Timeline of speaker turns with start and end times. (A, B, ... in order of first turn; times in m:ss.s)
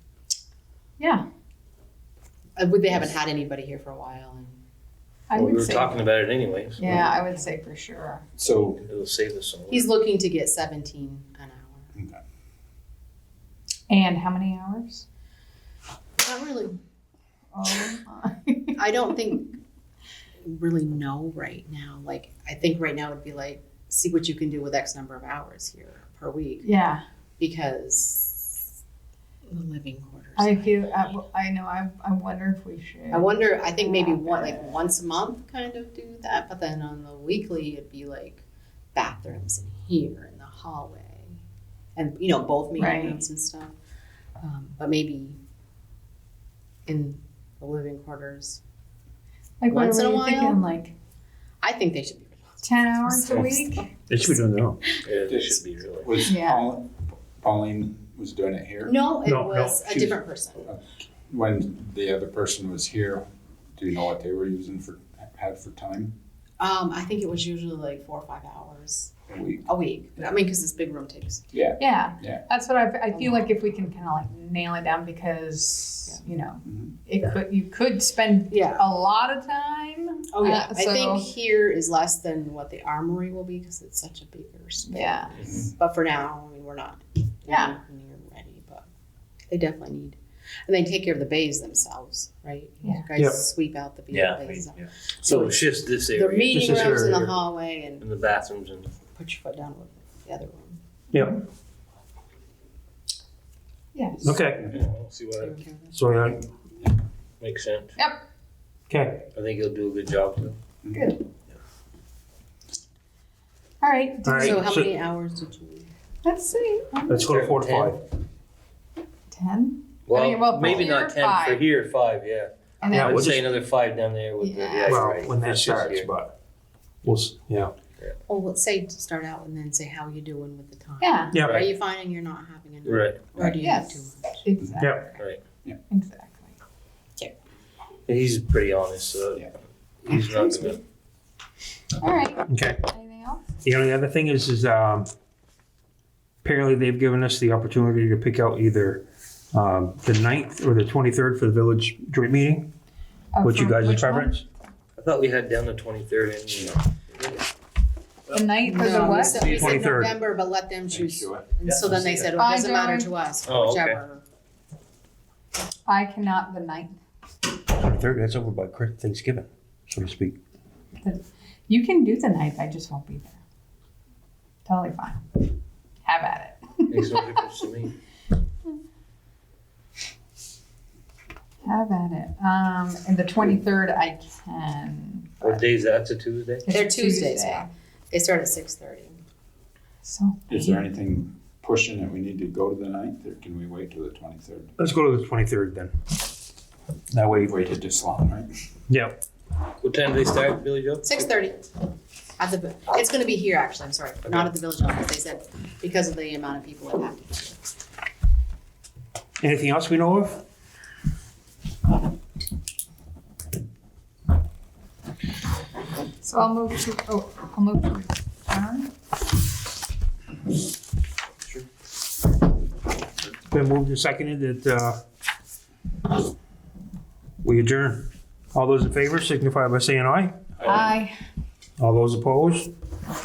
0:01.0-0:01.2 A
0:02.6-0:04.6 B
0:05.3-0:06.1 A
0:05.3-0:07.0 C
0:06.8-0:08.2 A
0:06.8-0:07.4 B
0:08.4-0:08.8 D
0:08.5-0:09.9 C
0:09.7-0:11.9 B
0:11.9-0:12.2 D
0:13.9-0:15.0 A
0:16.2-0:16.8 B
0:17.5-0:18.8 A
0:18.8-0:19.5 B
0:20.4-0:26.7 B
0:26.6-0:27.0 A
0:27.4-0:28.7 B
0:29.4-0:31.2 B
0:30.4-0:34.6 A
0:33.1-0:38.4 B
0:38.9-0:41.4 B
0:42.0-0:43.7 B
0:42.8-0:43.2 A
0:44.4-0:45.4 B
0:46.8-0:48.6 B
0:49.6-0:50.9 A
0:49.7-0:50.6 B
0:51.6-0:53.7 B
0:52.6-0:53.9 A
0:54.1-0:54.8 E
0:55.0-0:56.2 C
0:55.3-0:59.1 D
0:56.2-0:56.7 A
0:58.8-1:00.7 B
0:59.2-1:00.0 E
1:00.7-1:06.1 D
1:06.6-1:09.1 B
1:09.3-1:09.6 D
1:09.6-1:11.4 B
1:11.5-1:12.4 D
1:11.8-1:21.3 A
1:13.1-1:13.5 B
1:18.5-1:18.9 B
1:20.3-1:28.8 B
1:24.9-1:25.3 A
1:27.5-1:27.7 A
1:29.5-1:38.0 B
1:33.1-1:33.4 E
1:34.1-1:37.3 C
1:36.5-1:37.3 E
1:38.0-1:38.9 C
1:39.1-1:40.8 B
1:41.1-1:41.4 E
1:43.9-1:44.3 A
1:44.2-1:44.7 E
1:44.6-1:45.6 C
1:45.4-1:46.0 B
1:45.9-1:46.4 E
1:47.4-1:47.9 C
1:48.0-1:48.2 A
1:48.9-1:49.2 E
1:49.3-1:50.6 C
1:50.9-1:51.2 A
1:53.8-1:54.6 A
1:54.2-1:54.9 E
1:54.3-1:55.9 B
1:56.2-1:57.4 A
1:57.1-1:58.0 E
1:57.2-1:58.0 C
1:59.3-2:01.7 A
2:00.0-2:06.1 C
2:02.8-2:03.2 A
2:02.9-2:03.5 E
2:04.4-2:05.1 A
2:04.8-2:06.3 E
2:07.0-2:07.7 E
2:08.3-2:14.4 B
2:11.0-2:11.4 A
2:11.3-2:11.7 E
2:11.4-2:11.7 C
2:12.8-2:13.2 C
2:13.6-2:15.2 A
2:15.9-2:16.6 A
2:18.1-2:20.8 C
2:22.0-2:23.6 A
2:22.5-2:22.8 E
2:23.6-2:25.1 E
2:26.4-2:32.7 E
2:33.3-2:34.4 A
2:33.4-2:34.4 E
2:35.0-2:37.4 C
2:38.3-2:39.6 A
2:38.3-2:39.8 C
2:38.7-2:44.2 B
2:39.4-2:40.1 E
2:40.9-2:41.5 D
2:41.6-2:42.3 C
2:42.4-2:43.1 A
2:43.4-2:44.0 C
2:45.9-2:47.0 A
2:47.7-2:50.4 E
2:51.0-2:53.4 A
2:54.6-2:55.5 A
2:56.0-2:57.4 A
2:56.9-2:57.9 C
3:01.6-3:05.6 A
3:05.4-3:06.6 C
3:06.6-3:07.7 A
3:06.7-3:09.2 B
3:10.0-3:10.8 A
3:10.5-3:14.7 D
3:14.8-3:15.9 E
3:17.1-3:17.5 E
3:17.3-3:18.5 D
3:18.9-3:19.2 E
3:19.8-3:21.1 C
3:21.0-3:21.6 B
3:22.4-3:27.6 B
3:29.4-3:30.4 E
3:36.2-3:38.9 A
3:43.5-3:45.0 E
3:47.4-3:50.3 E
3:50.6-3:51.1 A
3:51.8-3:52.7 E